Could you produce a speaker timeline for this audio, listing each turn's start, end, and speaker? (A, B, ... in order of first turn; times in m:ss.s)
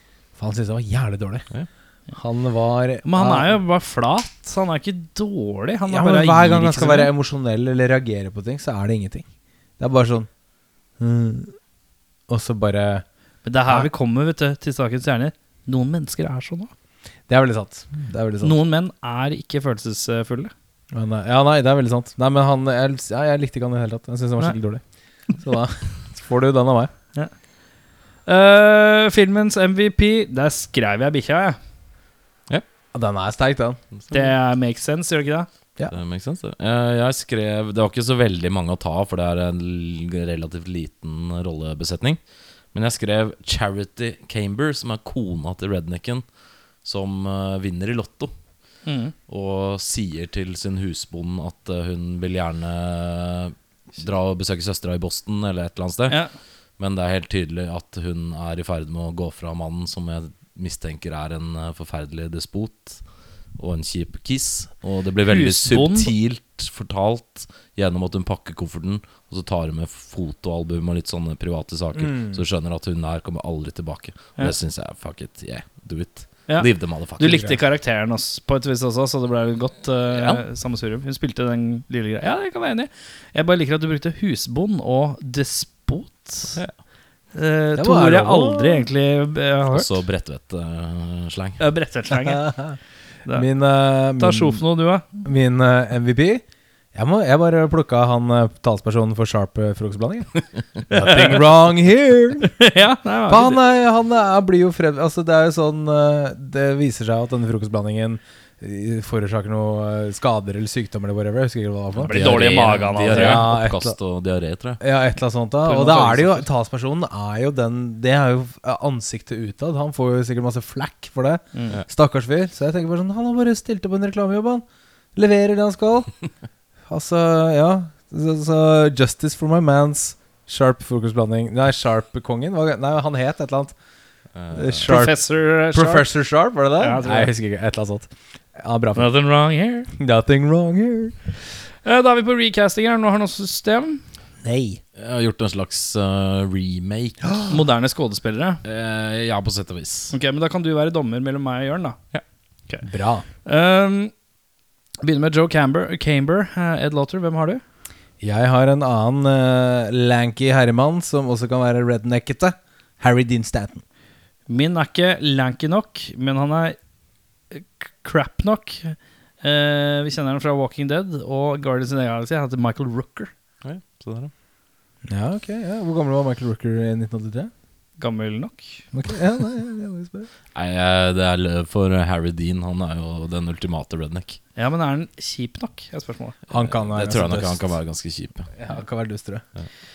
0:00.4-0:01.5 A
0:02.1-0:03.6 A
0:03.0-0:07.1 B
0:05.9-0:09.2 A
0:09.8-0:10.3 A
0:11.0-0:11.5 A
0:12.3-0:13.0 A
0:13.4-0:16.7 B
0:17.3-0:18.6 A
0:18.4-0:20.5 B
0:20.9-0:24.8 A
0:25.4-0:26.9 A
0:28.2-0:31.6 B
0:32.9-0:33.8 A
0:34.0-0:34.3 C
0:34.1-0:35.5 B
0:35.9-0:42.2 C
0:42.7-0:46.2 C
0:46.8-0:48.3 C
0:48.8-0:49.1 B
0:49.3-0:56.2 C
0:56.8-1:03.0 C
1:03.6-1:17.6 C
1:05.2-1:06.1 B
1:11.9-1:12.4 A
1:16.5-1:26.6 B
1:20.1-1:20.4 C
1:27.3-1:29.9 B
1:27.8-1:28.9 A
1:29.7-1:31.6 C
1:31.6-1:32.5 B
1:32.2-1:32.8 A
1:33.3-1:34.6 A
1:34.2-1:35.2 B
1:35.2-1:36.4 A
1:36.9-1:40.3 A
1:40.9-1:42.5 A
1:40.9-1:41.4 B
1:42.6-1:43.6 B
1:43.3-1:54.0 A
1:52.0-1:53.5 B
1:52.0-1:54.8 C
1:54.8-2:04.6 A
1:55.6-1:56.5 B
2:01.5-2:01.8 B
2:05.1-2:06.1 A
2:06.9-2:13.7 A
2:14.4-2:15.0 C
2:14.5-2:19.1 A
2:14.8-2:16.1 B
2:16.8-2:17.3 B
2:19.0-2:19.9 B
2:20.0-2:21.2 A
2:21.8-2:24.0 B
2:24.4-2:24.8 A
2:25.0-2:27.5 C
2:27.5-2:28.6 B
2:28.6-2:30.1 C
2:30.1-2:32.0 B
2:32.8-2:33.2 A
2:33.4-2:34.1 B
2:35.0-2:37.6 B
2:38.2-2:43.8 A
2:44.5-2:46.8 B
2:47.5-2:53.3 B
2:53.6-2:54.3 C
2:55.0-2:57.5 A
2:58.0-2:58.8 B
2:58.9-3:00.3 A
3:00.5-3:04.4 C
3:04.6-3:06.4 B
3:06.5-3:07.7 A
3:06.6-3:08.5 C
3:08.6-3:09.4 A